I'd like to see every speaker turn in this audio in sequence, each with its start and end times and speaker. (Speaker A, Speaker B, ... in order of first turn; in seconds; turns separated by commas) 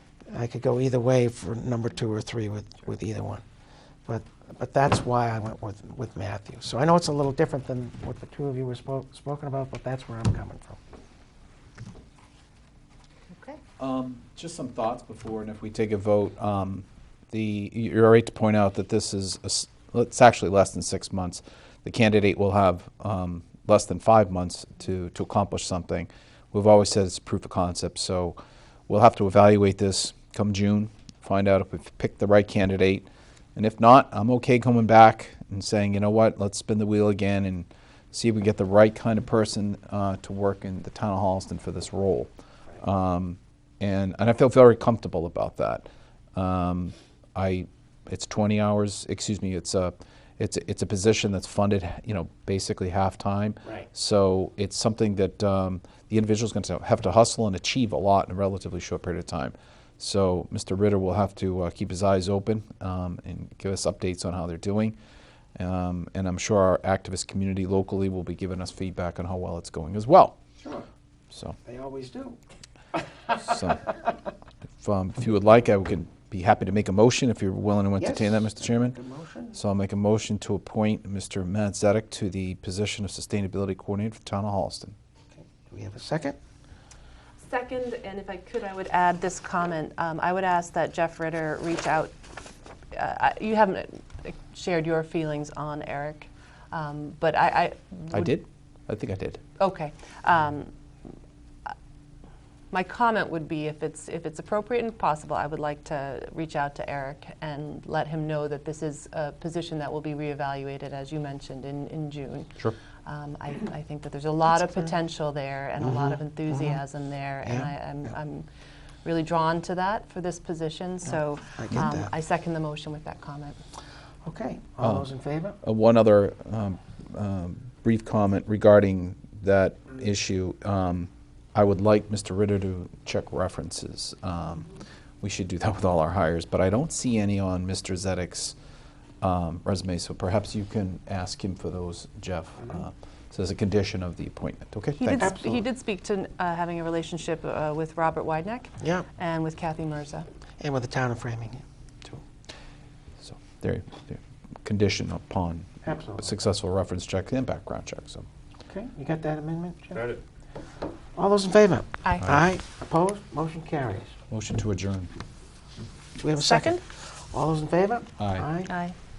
Speaker A: 0.3-3.4, Speaker A: 4.0-10.8, Speaker B: 13.3-13.6, Speaker C: 13.8-28.4, Speaker C: 28.9-65.0, Speaker C: 65.6-70.4, Speaker A: 70.6-70.9, Speaker C: 71.3-71.6, Speaker A: 71.6-72.4, Speaker C: 73.3-73.9, Speaker C: 74.8-79.0, Speaker A: 78.0-79.6, Speaker C: 79.5-85.0, Speaker A: 85.4-86.4, Speaker B: 87.4-92.1, Speaker B: 92.9-98.3, Speaker C: 98.1-99.4, Speaker B: 99.6-100.7, Speaker B: 102.7-118.5, Speaker A: 115.8-116.8, Speaker A: 117.4-117.7, Speaker B: 119.0-123.6, Speaker A: 121.0-122.1, Speaker A: 124.2-125.6, Speaker C: 124.8-125.1, Speaker C: 125.6-138.6, Speaker C: 139.2-145.3, Speaker B: 145.0-150.3, Speaker A: 145.2-145.6, Speaker A: 148.8-149.1, Speaker A: 150.6-152.2, Speaker C: 153.2-158.2, Speaker A: 155.8-156.3, Speaker A: 158.7-160.2, Speaker A: 161.1-164.2, Speaker C: 164.3-165.1, Speaker A: 166.2-168.7, Speaker B: 166.4-166.8, Speaker C: 168.2-168.5, Speaker B: 168.7-168.9